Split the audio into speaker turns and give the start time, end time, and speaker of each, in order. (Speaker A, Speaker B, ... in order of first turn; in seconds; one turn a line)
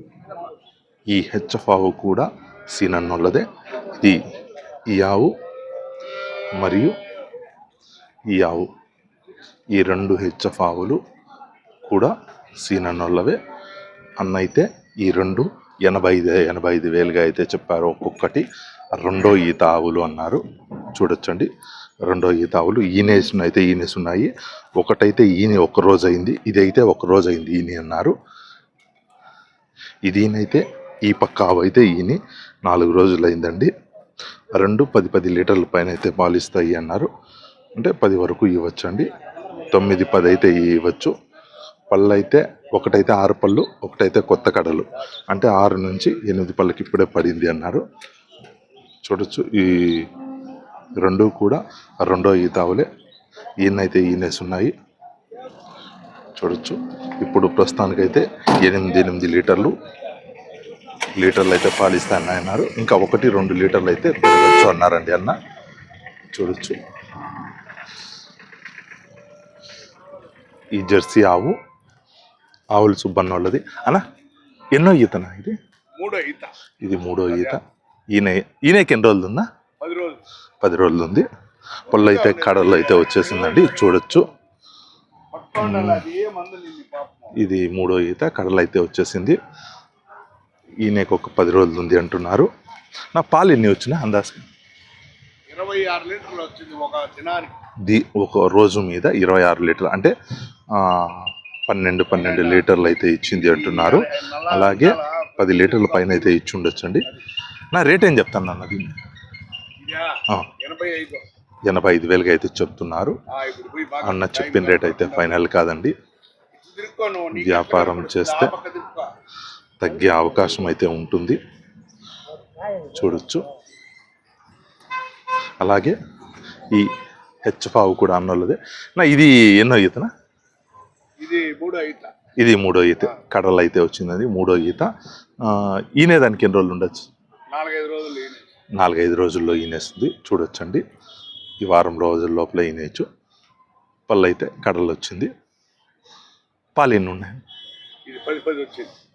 Speaker A: 1.1-3.5
Speaker A: 4.9-5.3
Speaker A: 6.5-7.0
Speaker A: 8.3-8.7
Speaker A: 9.7-11.0
Speaker A: 11.9-13.4
Speaker A: 14.2-18.4
Speaker A: 19.0-20.4
Speaker A: 20.9-21.5
Speaker A: 22.0-28.1
Speaker A: 30.1-33.7
Speaker A: 34.5-37.1
Speaker A: 37.8-39.1
Speaker A: 39.7-41.1
Speaker A: 41.9-47.8
Speaker A: 49.0-50.1
Speaker A: 51.0-52.9
Speaker A: 53.6-54.7
Speaker A: 56.4-59.8
Speaker A: 61.2-65.4
Speaker A: 66.3-66.8
Speaker A: 70.7-71.6
Speaker A: 72.7-74.0
Speaker A: 74.7-75.5
Speaker B: 76.0-76.5
Speaker A: 76.8-77.6
Speaker B: 77.3-77.6
Speaker A: 78.1-79.5
Speaker B: 79.8-80.2
Speaker A: 80.6-81.3
Speaker A: 81.9-84.3
Speaker B: 81.9-83.7
Speaker B: 85.3-87.3
Speaker A: 85.6-86.0
Speaker A: 87.3-89.4
Speaker A: 90.8-92.5
Speaker A: 93.1-94.4
Speaker B: 95.5-97.5
Speaker A: 97.9-100.1
Speaker A: 100.8-107.1
Speaker B: 103.4-106.3
Speaker A: 107.7-108.9
Speaker B: 109.8-111.2
Speaker A: 111.7-113.2
Speaker B: 113.3-115.3
Speaker A: 114.0-115.9
Speaker B: 116.6-119.1
Speaker A: 117.3-118.5
Speaker A: 119.8-121.4
Speaker A: 122.9-123.4
Speaker A: 125.6-126.0
Speaker A: 127.5-130.1
Speaker B: 131.2-132.1
Speaker A: 132.4-134.9
Speaker A: 135.4-137.1
Speaker B: 137.5-138.4
Speaker A: 138.7-140.8
Speaker A: 141.6-143.1
Speaker A: 144.1-145.3
Speaker A: 146.8-147.4
Speaker B: 148.1-148.9